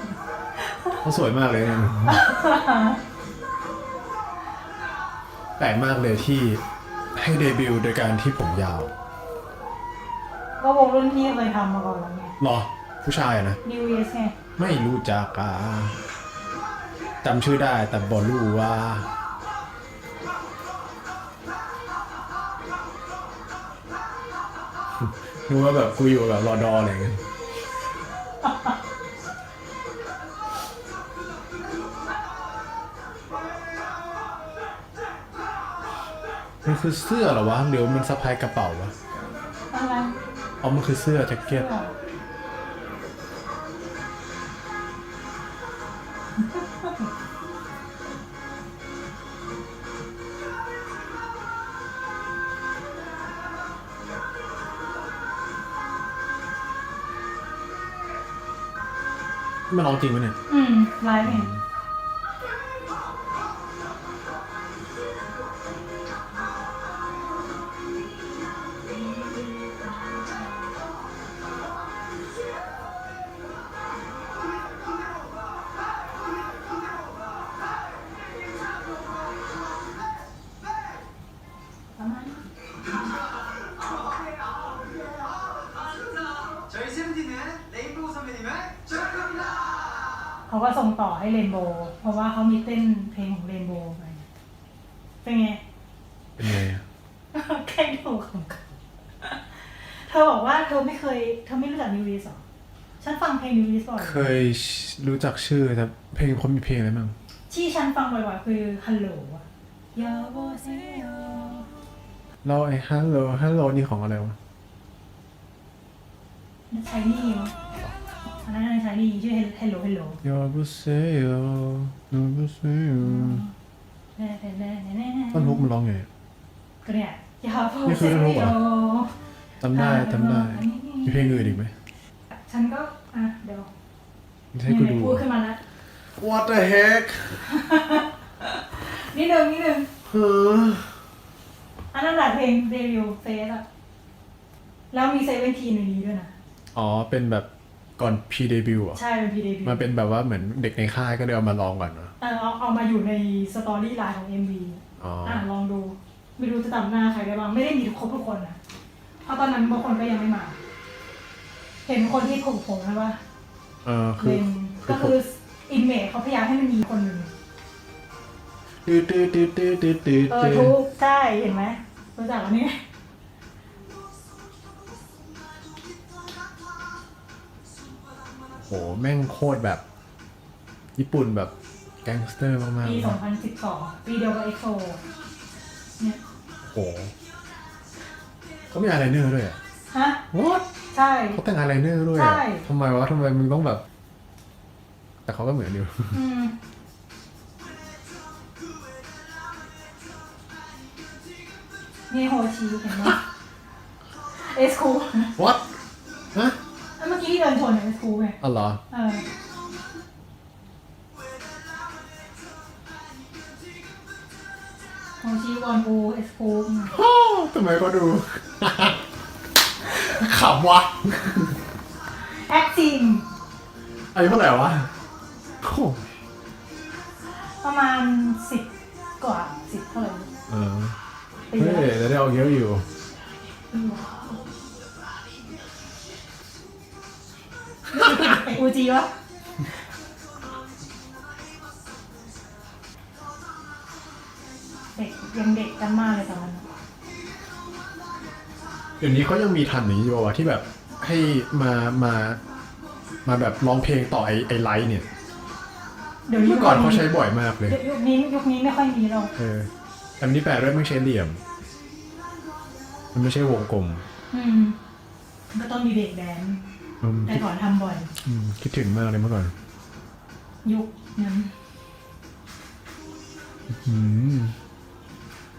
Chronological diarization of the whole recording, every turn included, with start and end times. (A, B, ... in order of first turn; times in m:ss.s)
0:00.5-0:01.0 A
0:01.0-0:02.2 B
0:02.0-0:03.0 A
0:05.6-0:06.6 B
0:07.1-0:08.9 B
0:10.6-0:12.3 A
0:12.4-0:13.6 B
0:13.6-0:14.3 A
0:14.6-0:16.0 B
0:17.2-0:19.1 B
0:25.0-0:27.2 B
0:36.6-0:38.9 B
0:39.7-0:40.2 A
0:40.6-0:41.7 B
0:41.5-0:41.9 A
0:46.4-0:47.1 A
0:59.7-1:00.4 B
1:00.5-1:01.5 A
1:01.2-1:01.6 B
1:22.0-1:22.4 A
1:30.5-1:34.2 A
1:35.2-1:35.6 A
1:36.4-1:36.8 B
1:37.3-1:42.4 A
1:43.0-1:44.3 A
1:44.0-1:47.2 B
1:47.5-1:51.7 A
1:52.4-1:54.4 B
1:56.7-1:57.5 A
1:58.4-2:00.2 A
2:00.2-2:03.5 B
2:03.0-2:03.5 A
2:04.2-2:05.6 A
2:05.3-2:06.1 B
2:06.8-2:09.2 A
2:07.8-2:08.6 B
2:09.6-2:11.7 B
2:09.7-2:11.6 A
2:12.3-2:13.7 A
2:14.5-2:15.3 B
2:14.6-2:15.6 A
2:16.2-2:17.4 B
2:17.4-2:19.9 A
2:20.0-2:20.9 B
2:21.9-2:23.6 A
2:24.9-2:26.3 A
2:26.7-2:29.0 B
2:28.9-2:29.9 A
2:29.6-2:32.1 B
2:32.2-2:38.6 A
2:35.0-2:35.4 B
2:39.2-2:40.6 A
2:41.8-2:43.2 A
2:43.8-2:45.1 B
2:44.2-2:47.3 A
2:48.8-2:50.7 B
2:50.3-2:52.8 A
2:58.6-2:59.8 B
3:01.0-3:01.5 B
3:02.0-3:03.2 B
3:02.8-3:05.0 A
3:06.7-3:07.1 B
3:08.7-3:09.6 B
3:09.9-3:10.2 A
3:10.3-3:10.6 B
3:10.9-3:11.4 A
3:11.3-3:13.8 B
3:12.1-3:12.6 A
3:15.2-3:16.2 B
3:16.1-3:16.5 A
3:22.1-3:23.2 A
3:24.3-3:25.4 A
3:25.4-3:25.6 B
3:27.0-3:28.4 A
3:28.4-3:28.8 B
3:28.9-3:29.2 A
3:35.2-3:37.0 A
3:36.9-3:39.0 B
3:39.9-3:41.6 B
3:42.2-3:43.3 A
3:44.1-3:44.9 B
3:45.6-3:46.1 B
3:47.3-3:50.3 A
3:50.5-3:51.0 B
3:51.5-3:51.9 A
3:51.5-3:52.9 B
3:53.7-3:54.4 A
3:57.9-3:59.8 A
4:04.9-4:06.7 A
4:09.0-4:12.4 B
4:13.2-4:15.1 B
4:16.3-4:17.1 A
4:16.4-4:17.8 B
4:17.6-4:19.3 A
4:19.4-4:21.4 B
4:23.1-4:24.0 B
4:24.3-4:24.8 A
4:25.5-4:26.6 A
4:27.0-4:27.4 B
4:27.2-4:28.1 A
4:28.2-4:29.5 B
4:30.6-4:31.5 A
4:33.7-4:34.6 B